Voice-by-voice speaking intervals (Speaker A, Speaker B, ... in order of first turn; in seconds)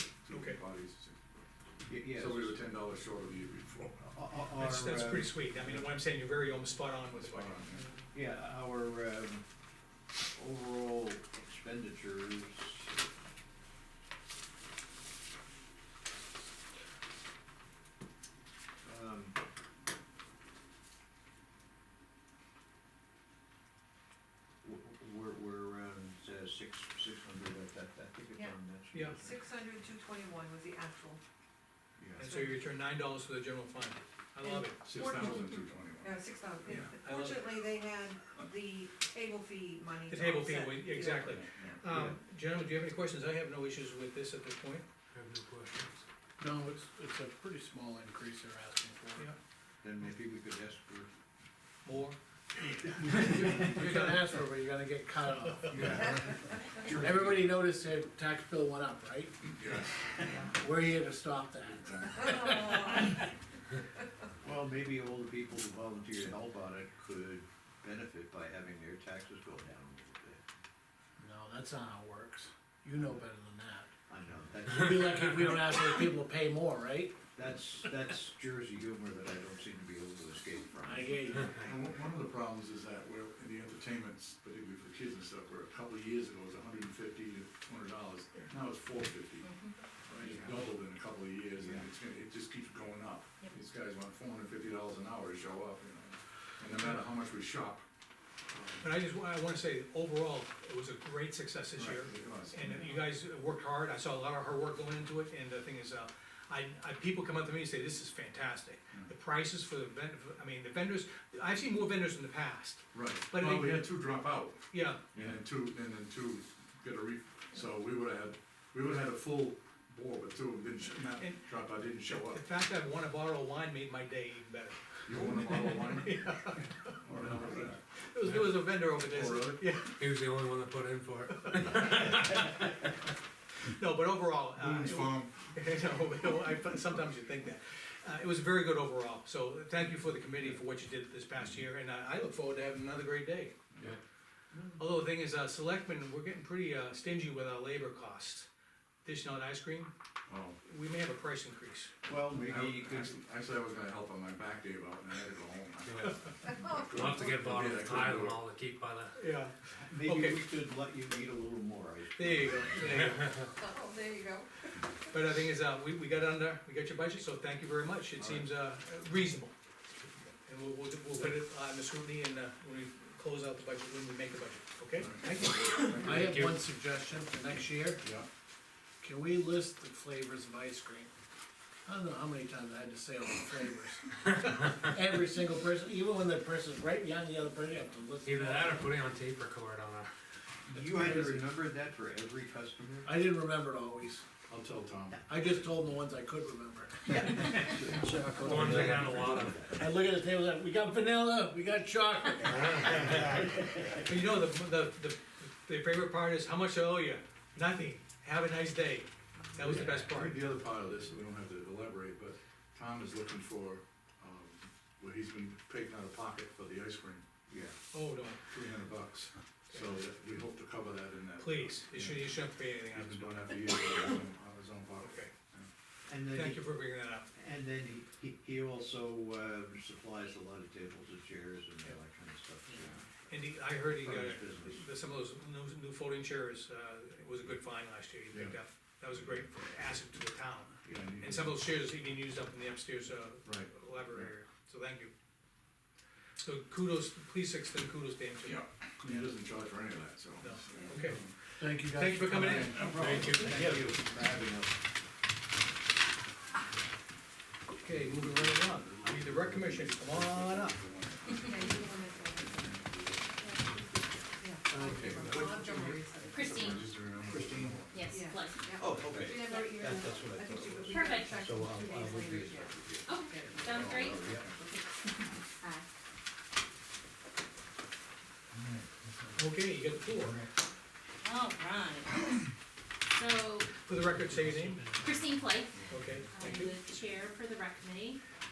Speaker A: 0.2-1.2, 2.1-4.1, 7.1-7.8, 34.8-36.9, 41.3-41.8, 59.5-60.5, 61.6-62.5, 81.5-89.5, 90.1-97.8, 98.5-98.9, 101.8-102.9, 112.9-122.4, 125.0-126.2, 127.0-127.8, 129.1-129.6, 134.6-135.3, 150.3-150.6, 152.4-158.4, 175.0-176.4, 178.0-178.3, 194.5-195.2, 209.6-217.2, 218.5-222.3, 222.9-225.7, 238.3-238.6, 239.1-239.5, 240.8-241.6, 243.4-244.3, 248.4-251.3, 252.3-253.7, 257.9-263.4, 264.7-268.0, 273.6-274.6, 285.7-286.3
Speaker B: 0.3-0.6, 4.5-7.8, 28.9-29.3, 32.2-35.0, 37.0-37.6, 40.1-44.8, 51.8-54.3, 98.8-113.9, 114.7-115.0, 121.2-121.4, 122.0-130.0, 131.4-132.6, 133.6-143.5, 144.8-148.5, 149.0-149.9, 150.6-151.9, 159.1-160.4, 162.2-163.3, 165.1-169.5, 170.4-175.8, 204.0-210.4, 217.9-218.4, 221.4-223.6, 225.0-225.3, 226.3-227.3, 233.3-245.1, 246.4-248.6, 250.4-253.8, 257.7-260.8, 279.4-280.4, 283.8-284.9, 285.9-286.8
Speaker C: 1.9-2.6, 4.0-5.3, 8.1-9.4, 10.3-12.9, 18.8-19.4, 24.6-29.4, 41.7-42.2, 49.8-51.1, 55.7-57.5, 64.4-70.4, 74.1-75.6, 77.3-81.5, 91.6-91.8, 144.5-144.8, 152.1-153.2, 159.7-163.2, 168.2-168.4, 190.7-193.1, 197.1-199.8, 203.0-204.0, 217.5-217.7, 226.1-226.7, 227.3-233.1, 233.8-234.9, 252.9-254.8, 267.5-267.8, 268.8-273.1, 273.6-274.5
Speaker D: 29.2-31.2, 32.2-32.6, 34.4-41.4, 62.4-63.0, 163.6-164.6, 261.4-262.8, 263.4-266.9, 268.1-274.9
Speaker E: 45.1-46.0, 130.0-132.4, 156.8-159.2, 176.0-176.6, 188.2-190.1, 198.3-199.7, 252.9-253.8
Speaker F: 46.4-49.3, 53.0-56.2, 56.9-59.3, 60.5-63.1, 71.2-73.9, 74.7-77.2, 80.8-81.5, 90.1-90.6, 176.0-178.1, 179.0-181.1, 181.8-188.9, 190.8-191.5, 193.0-194.2, 195.3-198.0, 198.5-198.9, 199.7-203.2, 251.6-253.2, 284.3-285.3
Speaker G: 89.4-89.7, 266.3-266.8, 267.9-268.6, 270.9-271.4, 273.1-274.2, 275.2-275.9, 281.2-282.2, 283.1-283.8, 285.0-288.2